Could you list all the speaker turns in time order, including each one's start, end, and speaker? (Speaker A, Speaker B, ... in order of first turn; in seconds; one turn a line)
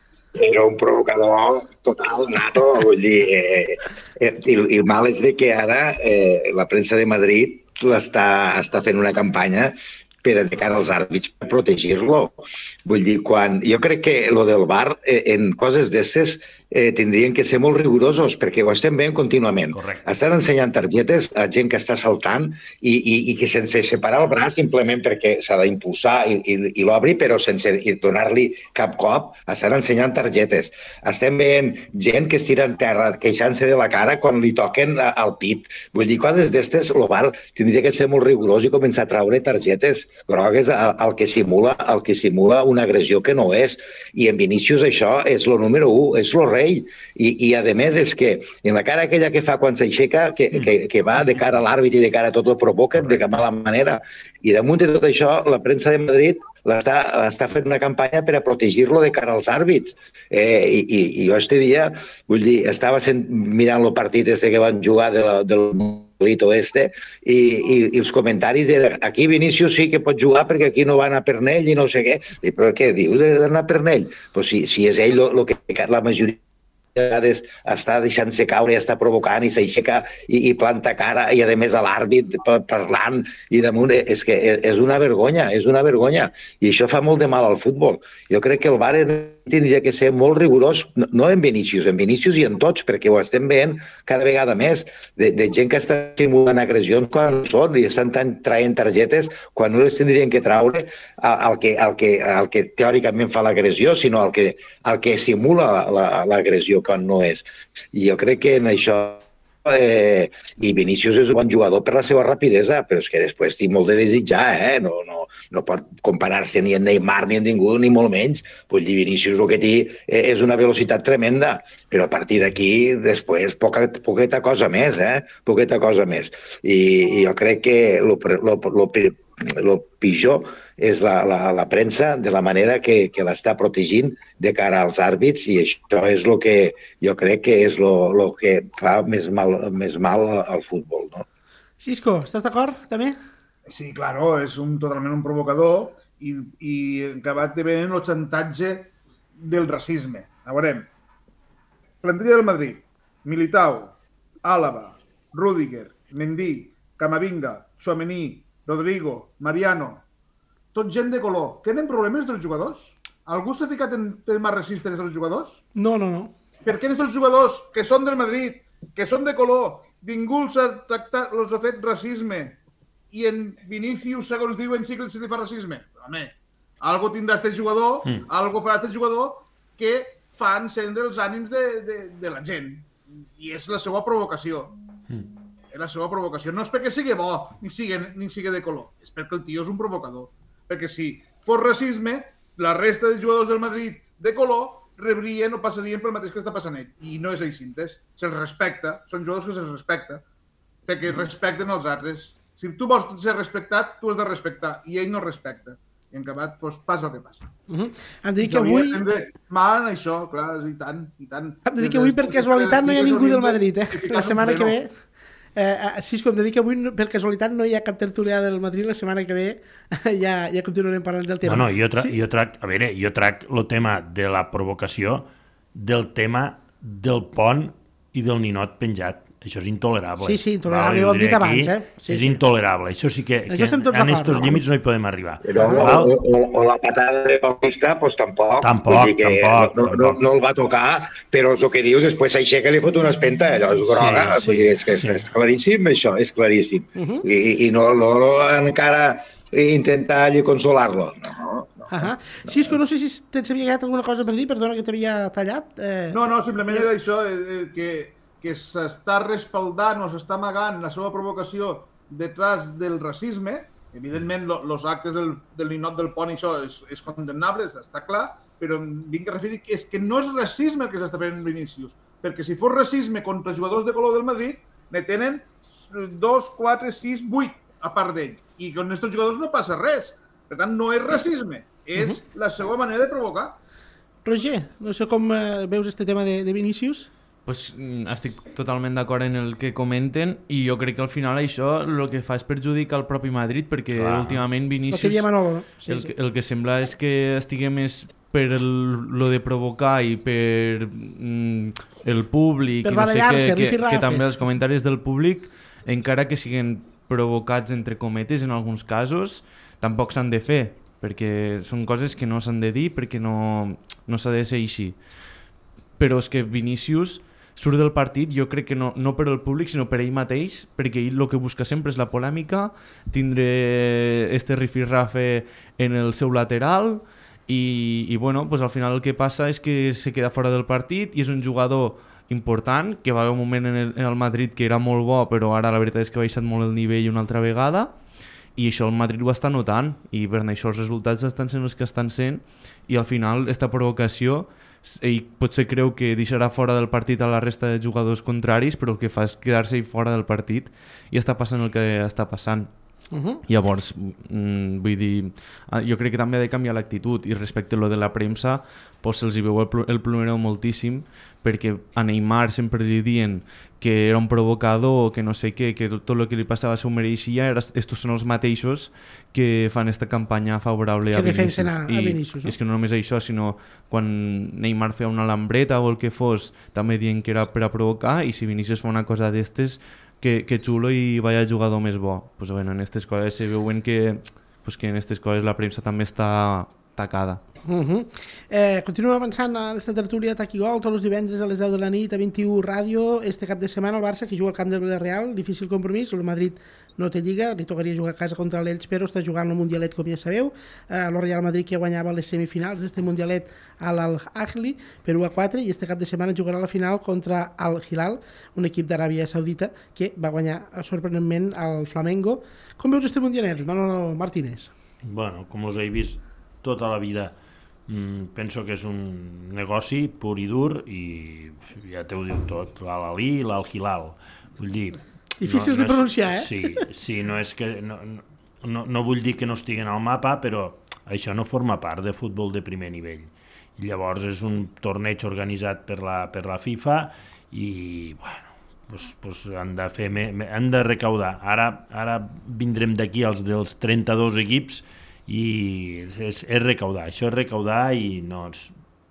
Speaker A: 0.3-76.4
Speaker B: 19.7-20.1
Speaker A: 77.0-141.2
Speaker C: 141.8-143.2
Speaker D: 143.7-150.9
Speaker D: 152.0-160.1
Speaker D: 160.7-165.6
Speaker C: 165.8-166.3
Speaker D: 166.6-172.6
Speaker D: 173.1-184.8
Speaker D: 185.7-200.2
Speaker D: 200.9-207.5
Speaker C: 207.7-209.0
Speaker D: 208.4-214.8
Speaker C: 211.7-215.0
Speaker C: 215.6-222.1
Speaker B: 221.4-236.2
Speaker C: 230.2-232.4
Speaker C: 233.5-234.6
Speaker A: 235.4-252.6
Speaker C: 235.6-235.9
Speaker B: 238.6-240.2
Speaker B: 243.8-245.3
Speaker C: 247.0-247.2
Speaker C: 251.9-256.9
Speaker D: 256.1-283.6
Speaker C: 284.2-287.1
Speaker E: 287.5-295.3
Speaker B: 293.9-294.4
Speaker C: 294.9-296.1
Speaker E: 295.9-315.0
Speaker C: 302.8-304.6
Speaker E: 316.0-337.9
Speaker E: 338.6-352.7
Speaker C: 353.1-353.4
Speaker E: 353.5-387.4
Speaker C: 371.1-372.6
Speaker C: 387.7-414.7
Speaker B: 415.1-417.3
Speaker B: 417.9-448.7
Speaker C: 425.4-426.9